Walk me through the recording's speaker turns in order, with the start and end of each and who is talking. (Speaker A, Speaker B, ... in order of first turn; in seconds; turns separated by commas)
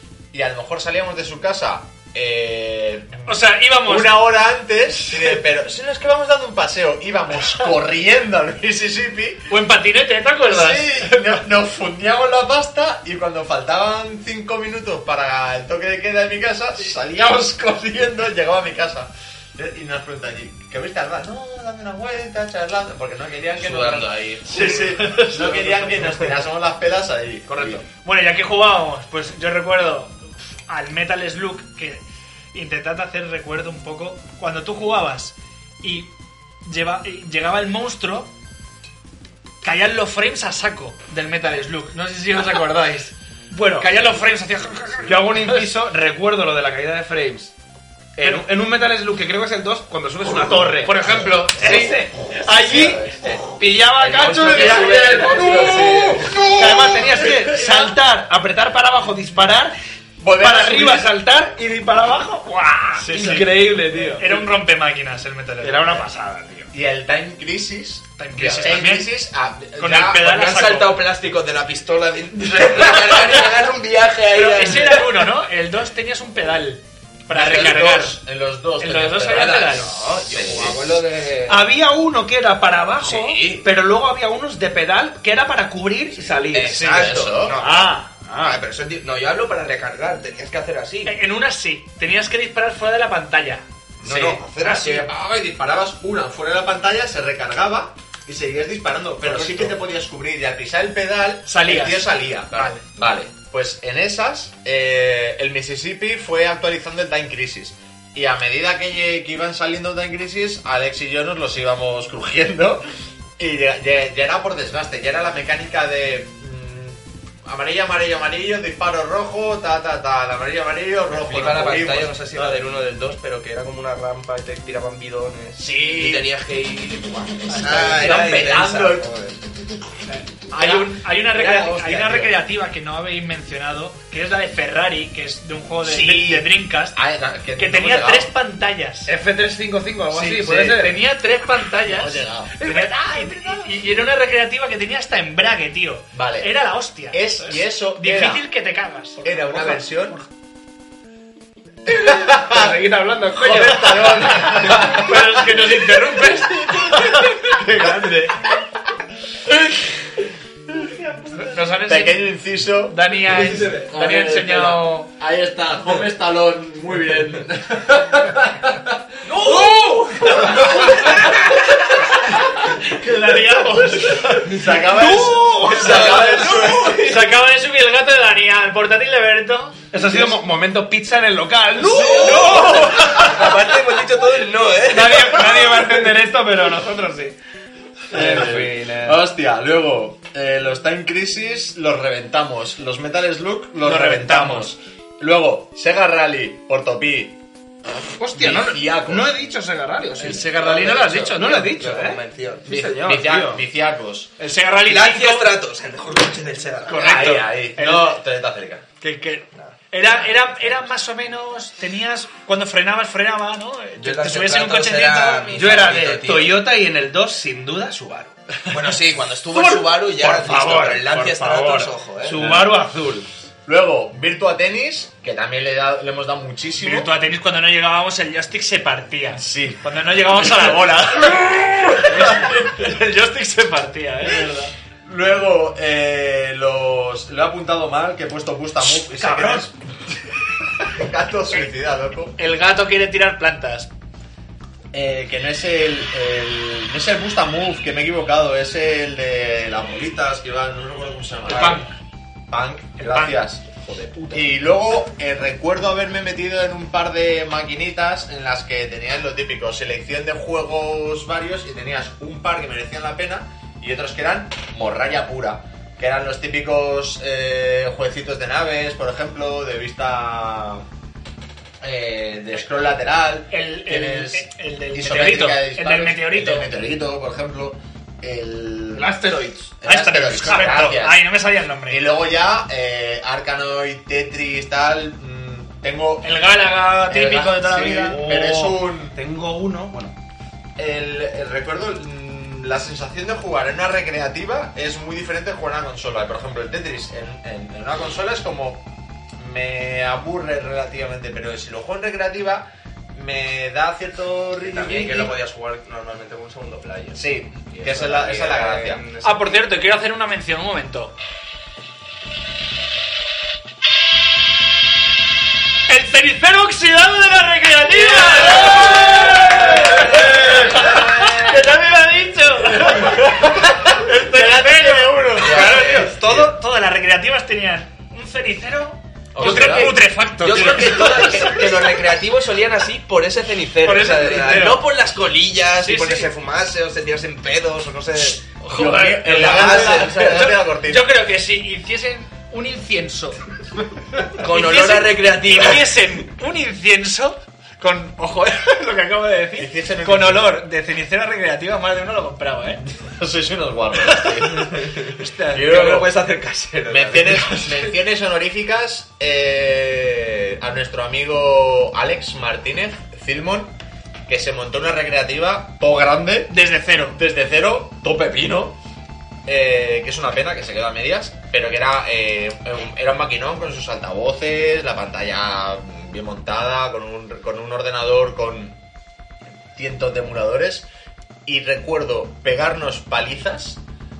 Speaker A: 0.3-9.5, Speaker B: 3.2-4.4, Speaker B: 9.5-11.4, Speaker A: 10.4-27.9, Speaker C: 23.6-24.2, Speaker B: 24.5-25.6, Speaker C: 25.4-26.1, Speaker D: 27.5-27.8, Speaker B: 28.0-32.0, Speaker B: 32.5-36.1, Speaker B: 36.6-38.3, Speaker B: 39.6-43.1, Speaker D: 43.5-44.0, Speaker B: 43.7-45.7, Speaker D: 45.0-47.5, Speaker D: 48.2-59.8, Speaker B: 48.2-48.5, Speaker B: 50.3-52.0, Speaker C: 52.5-53.4, Speaker A: 52.8-53.4, Speaker C: 54.0-56.5, Speaker A: 54.5-57.9, Speaker A: 60.2-61.1, Speaker D: 60.3-64.5, Speaker B: 62.9-66.1, Speaker D: 65.6-66.7, Speaker A: 66.7-70.3, Speaker B: 68.2-69.1, Speaker B: 69.8-71.0, Speaker C: 70.0-75.2, Speaker B: 74.3-78.2, Speaker A: 77.3-81.0, Speaker B: 78.8-79.9, Speaker C: 79.3-81.7, Speaker D: 81.5-88.6, Speaker C: 83.0-83.7, Speaker A: 86.4-87.6, Speaker C: 86.5-91.2, Speaker B: 86.8-87.1, Speaker B: 91.1-93.6, Speaker A: 94.0-112.8, Speaker C: 94.0-95.0, Speaker B: 94.6-95.0, Speaker B: 99.2-99.8, Speaker B: 101.5-102.8, Speaker A: 113.4-122.6, Speaker C: 121.1-129.4, Speaker A: 125.6-126.2, Speaker B: 127.5-128.0, Speaker A: 127.6-129.3, Speaker B: 130.1-137.0, Speaker A: 130.6-132.3, Speaker A: 135.9-138.3, Speaker B: 137.6-139.1, Speaker D: 139.1-141.0, Speaker B: 140.1-150.2, Speaker A: 141.8-142.6, Speaker D: 142.6-143.2, Speaker A: 146.1-146.5, Speaker A: 147.1-148.4, Speaker A: 149.2-150.2, Speaker A: 151.9-152.8, Speaker D: 151.9-155.1, Speaker A: 153.3-155.2, Speaker B: 154.2-157.1, Speaker D: 157.1-157.9, Speaker B: 161.3-162.3, Speaker A: 161.9-163.0, Speaker B: 162.9-165.1, Speaker A: 163.5-171.3, Speaker C: 169.2-171.1, Speaker B: 170.5-171.0, Speaker B: 172.0-174.8, Speaker A: 174.4-177.0, Speaker D: 174.7-176.5, Speaker C: 175.6-177.3, Speaker B: 176.1-179.8, Speaker D: 179.9-183.5, Speaker C: 181.8-185.8, Speaker B: 182.0-183.4, Speaker D: 184.9-187.4, Speaker D: 188.1-189.2, Speaker A: 188.1-197.4, Speaker B: 193.8-194.7, Speaker D: 198.2-200.5, Speaker A: 198.3-199.3, Speaker B: 200.2-201.6, Speaker A: 200.4-201.4, Speaker D: 201.2-203.6, Speaker C: 201.4-202.8, Speaker A: 202.7-204.3, Speaker B: 204.4-205.5, Speaker C: 204.8-207.3, Speaker B: 206.9-208.2, Speaker A: 207.0-208.8, Speaker B: 209.0-215.6, Speaker C: 214.0-216.6, Speaker D: 215.5-218.9, Speaker C: 218.7-222.7, Speaker D: 219.5-223.3, Speaker A: 223.7-227.1, Speaker B: 226.8-234.7, Speaker A: 229.4-229.9, Speaker A: 232.1-232.5, Speaker A: 235.1-239.7, Speaker B: 238.9-239.7, Speaker A: 240.8-242.3, Speaker B: 242.4-243.9, Speaker A: 244.9-251.9, Speaker B: 251.4-251.9, Speaker A: 252.5-253.7, Speaker B: 253.0-254.4, Speaker A: 254.3-270.8, Speaker A: 271.8-279.2, Speaker B: 273.5-276.7, Speaker D: 278.9-279.7, Speaker A: 279.8-281.2, Speaker B: 279.8-282.1, Speaker A: 281.9-286.4, Speaker B: 286.2-288.2, Speaker A: 287.1-289.2, Speaker D: 288.1-290.1, Speaker A: 290.8-298.9, Speaker A: 299.4-305.4, Speaker C: 304.6-309.7, Speaker A: 307.1-309.1, Speaker B: 309.2-311.1, Speaker B: 315.9-331.9, Speaker A: 318.6-319.1, Speaker D: 319.5-320.2, Speaker A: 320.8-321.4, Speaker A: 324.4-326.4, Speaker C: 325.4-326.4, Speaker A: 329.4-329.9, Speaker C: 329.4-338.5, Speaker B: 333.8-334.8, Speaker B: 335.8-336.3, Speaker B: 338.6-343.4, Speaker A: 338.7-341.1, Speaker C: 339.2-340.6, Speaker C: 344.4-346.0, Speaker B: 344.4-352.9, Speaker A: 349.6-350.6, Speaker A: 353.1-356.1, Speaker C: 354.8-357.9, Speaker B: 355.1-355.9, Speaker A: 356.9-363.8, Speaker A: 364.3-366.5, Speaker B: 366.5-367.2, Speaker A: 367.2-368.8, Speaker A: 369.4-378.8, Speaker A: 379.8-380.9, Speaker A: 381.5-383.8